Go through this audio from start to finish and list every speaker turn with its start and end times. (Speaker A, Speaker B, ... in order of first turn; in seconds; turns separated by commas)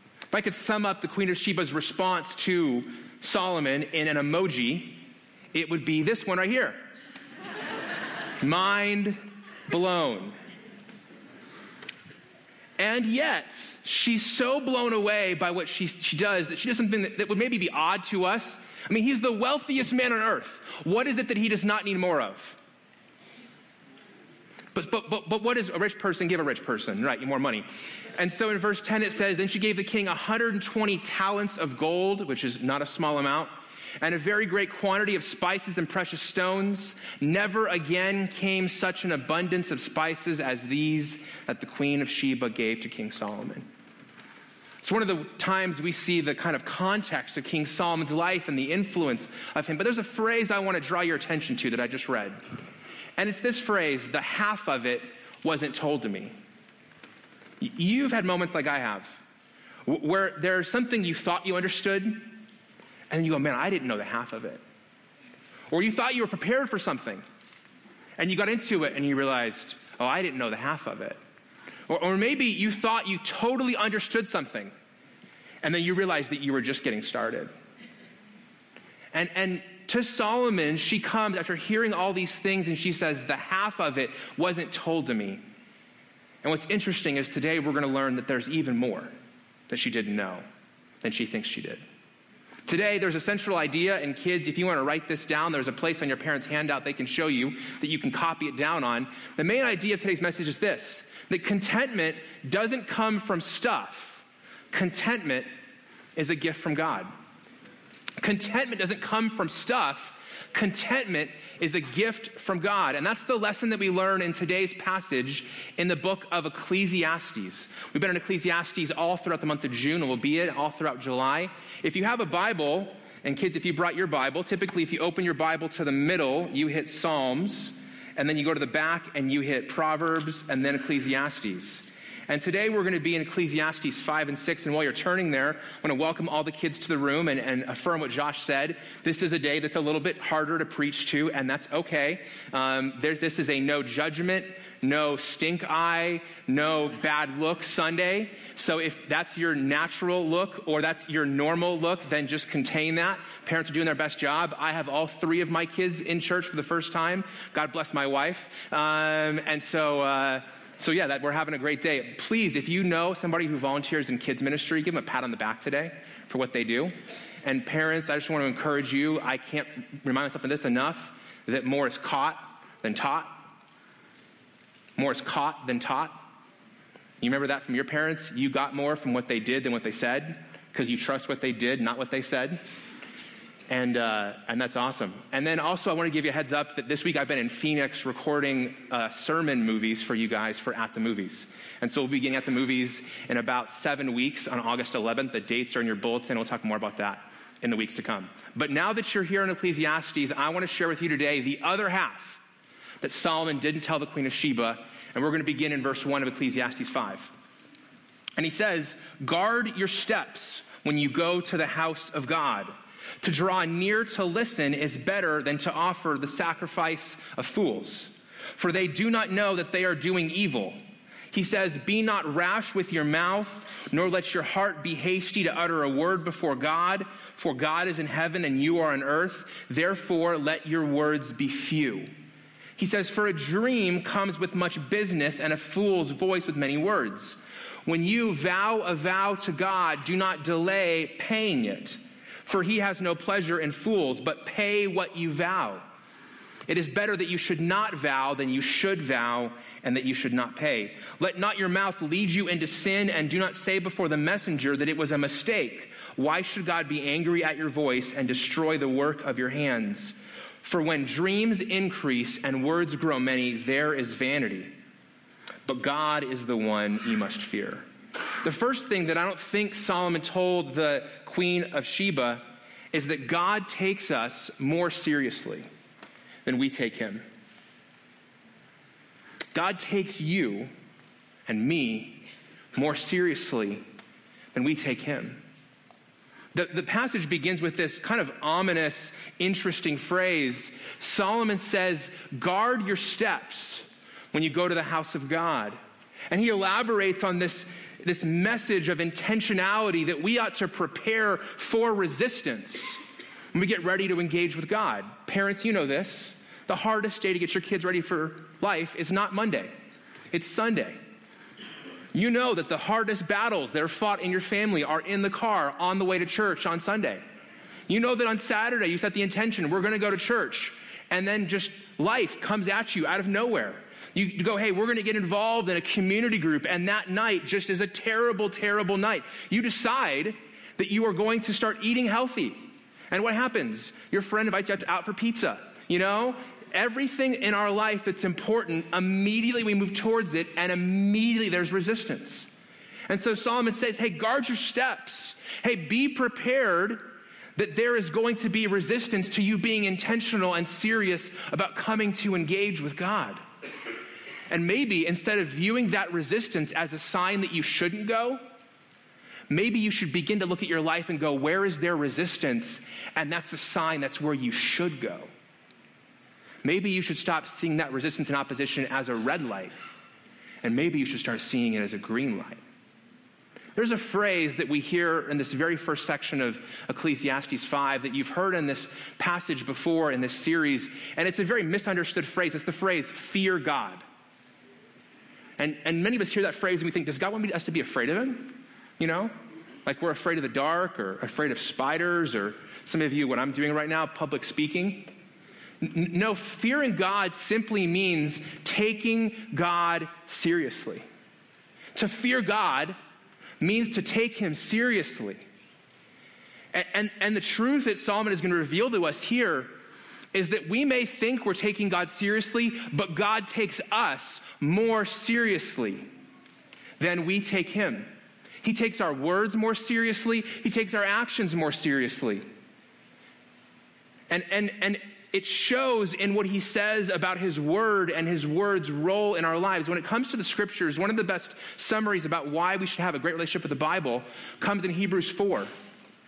Speaker A: 0.3-6.9, Speaker A: 8.4-10.4, Speaker A: 12.8-22.6, Speaker A: 24.7-43.7, Speaker A: 44.8-52.4, Speaker A: 53.2-56.3, Speaker A: 57.6-59.2, Speaker A: 59.9-62.4, Speaker A: 63.1-64.6, Speaker A: 65.7-67.2, Speaker A: 68.2-71.2, Speaker A: 71.9-74.7, Speaker A: 75.6-77.5, Speaker A: 79.1-85.4, Speaker A: 86.4-89.1, Speaker A: 89.7-90.5, Speaker A: 91.0-91.8, Speaker A: 92.7-105.5, Speaker A: 106.2-107.1, Speaker A: 108.2-166.9, Speaker A: 167.4-173.5, Speaker A: 175.0-176.3, Speaker A: 177.2-182.6, Speaker A: 183.7-202.4, Speaker A: 203.0-207.3, Speaker A: 208.4-220.8, Speaker A: 221.3-232.1, Speaker A: 232.8-245.9, Speaker A: 246.7-264.7, Speaker A: 265.7-267.9, Speaker A: 268.4-275.7, Speaker A: 276.5-277.2, Speaker A: 279.5-280.7, Speaker A: 281.5-282.2, Speaker A: 282.8-283.8, Speaker A: 284.5-285.4, Speaker A: 286.5-295.8, Speaker A: 296.3-303.0, Speaker A: 303.5-309.7, Speaker A: 310.3-311.0, Speaker A: 312.1-317.2, Speaker A: 317.9-342.5, Speaker A: 343.1-353.4, Speaker A: 354.5-358.4, Speaker A: 359.5-365.3, Speaker A: 366.6-369.7, Speaker A: 370.6-372.6, Speaker A: 373.8-384.0, Speaker A: 385.6-389.3, Speaker A: 389.9-395.1, Speaker A: 395.8-401.1, Speaker A: 401.9-403.0, Speaker A: 403.6-405.4, Speaker A: 406.7-409.8, Speaker A: 410.3-416.1, Speaker A: 417.0-418.1, Speaker A: 418.6-422.5, Speaker A: 424.3-435.7